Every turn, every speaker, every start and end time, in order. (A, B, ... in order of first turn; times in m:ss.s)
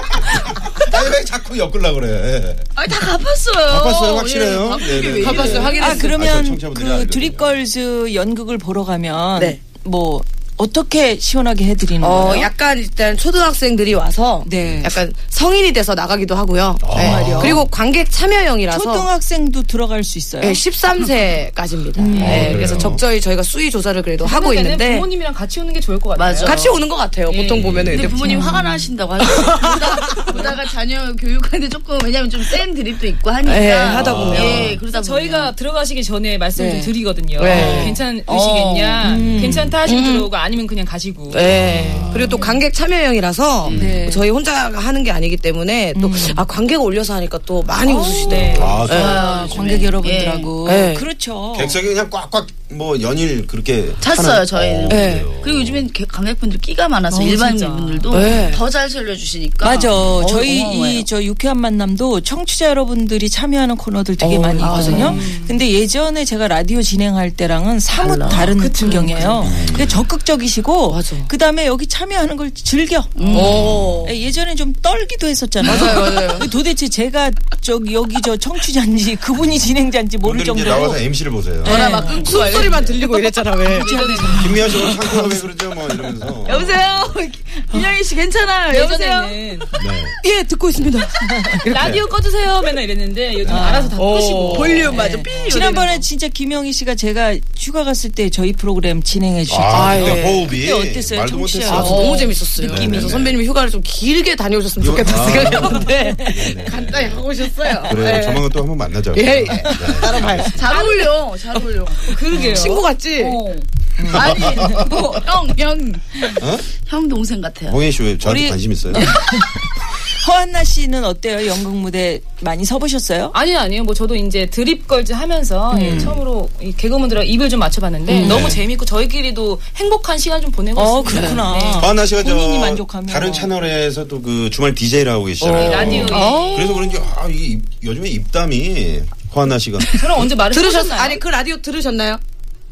0:00.7-0:02.7 A
0:02.8-0:06.1 B
0:03.7-0:07.6 A
0:05.1-0:06.2 C
0:05.8-0:12.5 D
0:09.4-0:09.6 C
0:12.0-0:19.1 C
0:14.4-0:14.9 D
0:16.8-0:17.6 A
0:17.0-0:17.6 D
0:18.7-0:20.6 D
0:20.4-0:25.1 C
0:22.0-0:23.0 D
0:22.1-0:22.5 B
0:22.2-0:23.0 A
0:24.2-0:26.6 E
0:26.2-0:26.9 B
0:26.4-0:28.4 C
0:27.3-0:28.1 E
0:27.5-0:28.1 A
0:27.9-0:35.5 B
0:28.2-0:28.9 D
0:29.2-0:30.4 C
0:33.4-0:34.7 C
0:33.9-0:34.8 A
0:34.5-0:41.5 E
0:36.6-0:37.0 D
0:37.4-0:39.0 C
0:37.5-0:38.0 A
0:37.5-0:37.8 D
0:39.0-0:39.8 D
0:39.2-0:39.6 A
0:39.8-0:40.3 C
0:41.3-0:49.4 C
0:41.4-0:42.3 A
0:42.2-0:42.5 D
0:43.7-0:44.0 B
0:43.7-0:44.3 D
0:43.7-0:44.0 A
0:45.9-0:46.4 D
0:47.8-0:51.8 D
0:48.2-0:49.0 E
0:48.5-0:49.8 A
0:48.9-0:50.5 B
0:50.6-0:51.1 C
0:51.5-0:55.8 A
0:54.0-1:01.1 B
0:54.9-0:55.3 C
0:57.1-0:58.1 E
0:58.1-0:58.6 C
0:58.2-0:58.6 A
0:59.6-1:21.0 D
1:04.2-1:05.3 C
1:04.6-1:05.2 B
1:04.7-1:05.6 E
1:08.0-1:08.5 B
1:08.4-1:09.6 E
1:08.9-1:09.4 C
1:09.4-1:10.0 A
1:10.9-1:11.3 C
1:13.2-1:13.7 B
1:13.3-1:14.1 C
1:13.4-1:14.0 A
1:15.6-1:16.5 C
1:20.2-1:21.8 A
1:21.6-1:22.5 D
1:21.6-1:23.9 C
1:22.0-1:23.0 B
1:23.7-1:24.9 D
1:23.7-1:24.6 E
1:24.4-1:27.1 A
1:24.8-1:25.2 C
1:26.4-1:29.4 B
1:28.7-1:29.7 E
1:29.8-1:30.2 A
1:30.2-1:31.9 C
1:31.6-1:35.7 E
1:31.8-1:32.1 A
1:33.4-1:33.8 A
1:33.5-1:43.3 D
1:34.0-1:36.0 C
1:39.5-1:43.4 A
1:39.7-1:40.5 C
1:41.7-1:42.3 B
1:41.7-1:48.5 C
1:44.8-1:47.2 A
1:45.5-1:46.5 D
1:47.9-1:50.6 A
1:49.1-1:50.9 C
1:50.4-1:52.2 B
1:50.6-1:51.1 E
1:52.1-1:53.3 E
1:52.3-1:52.6 D
1:52.4-1:53.4 C
1:53.2-1:57.8 B
1:54.0-1:54.9 D
1:54.1-1:55.1 A
1:56.4-1:56.7 A
1:57.7-1:59.1 A
1:58.2-2:03.4 D
2:03.3-2:11.9 E
2:05.7-2:06.2 D
2:05.8-2:06.2 A
2:08.1-2:08.6 D
2:08.2-2:08.6 A
2:10.8-2:13.5 D
2:11.1-2:11.4 C
2:11.1-2:20.2 A
2:15.4-2:17.0 C
2:15.5-2:16.8 E
2:19.8-2:22.2 C
2:20.0-2:21.2 E